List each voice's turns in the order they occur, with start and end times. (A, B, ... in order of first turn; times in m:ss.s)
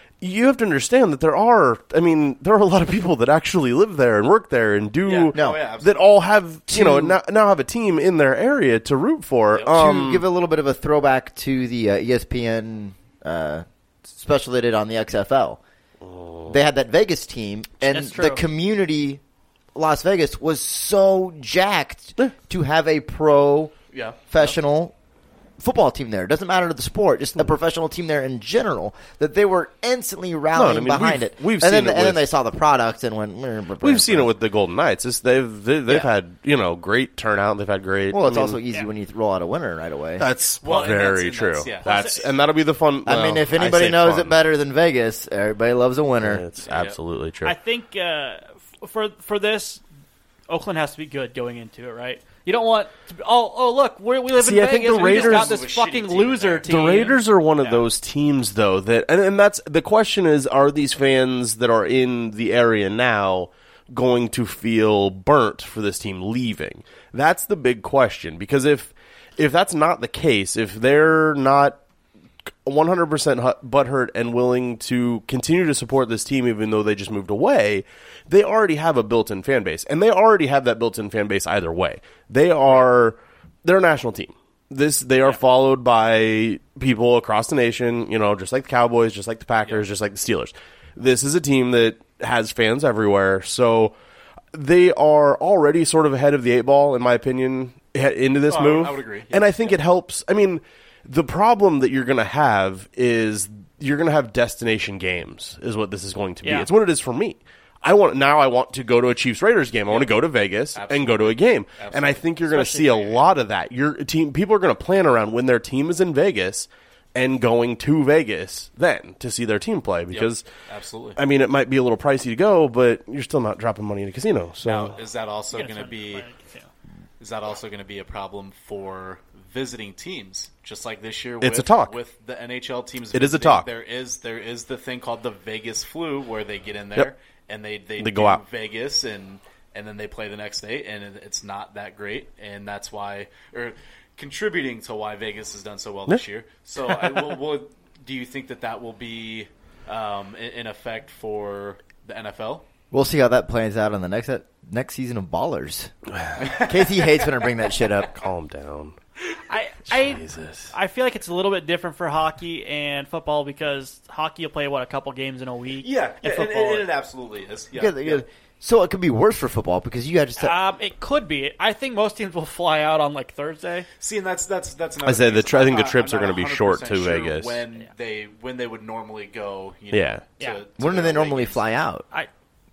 0:00.2-0:10.2 A
0:05.0-0:06.0 B
0:05.3-0:05.6 C
0:06.7-0:07.2 C
0:09.6-0:15.6 C
0:16.0-0:16.6 A
0:16.5-0:19.2 C
0:17.8-0:18.4 D
0:19.7-0:23.7 C
0:23.9-0:24.6 B
0:24.3-0:24.9 C
0:25.6-0:34.3 C
0:30.5-0:32.3 A
0:33.8-0:38.6 A
0:38.1-0:40.2 C
0:40.2-0:44.4 A
0:40.6-0:42.1 B
0:41.8-0:42.3 D
0:43.0-0:46.4 C
0:46.2-0:47.5 A
0:46.6-0:47.0 B
0:47.4-0:49.8 D
0:50.5-0:57.2 D
0:54.4-0:55.6 A
0:54.8-0:57.0 B
0:56.6-1:11.8 A
0:57.6-0:57.8 B
1:12.6-1:33.9 A
1:34.5-2:00.4 A
1:38.5-1:39.8 B
1:46.4-1:46.7 D
1:49.9-1:50.2 B
1:50.7-1:52.2 B
1:52.4-1:53.3 D
2:00.1-2:01.2 B
2:01.2-2:05.0 A
2:04.6-2:06.3 B
2:05.5-2:06.7 D
2:07.2-2:32.6 B
2:11.4-2:12.0 A
2:13.1-2:13.7 A
2:18.0-2:18.4 A
2:32.9-2:35.9 C
2:36.1-2:36.5 A
2:36.4-2:37.2 B
2:36.5-2:38.1 C
2:38.1-2:39.0 A
2:39.5-2:46.9 D
2:39.9-2:40.7 A
2:45.8-2:48.2 B
2:47.7-2:50.6 C
2:50.4-2:53.9 D
2:54.0-3:01.6 B
2:55.0-2:57.6 A
2:59.9-3:00.2 A
3:00.8-3:02.0 C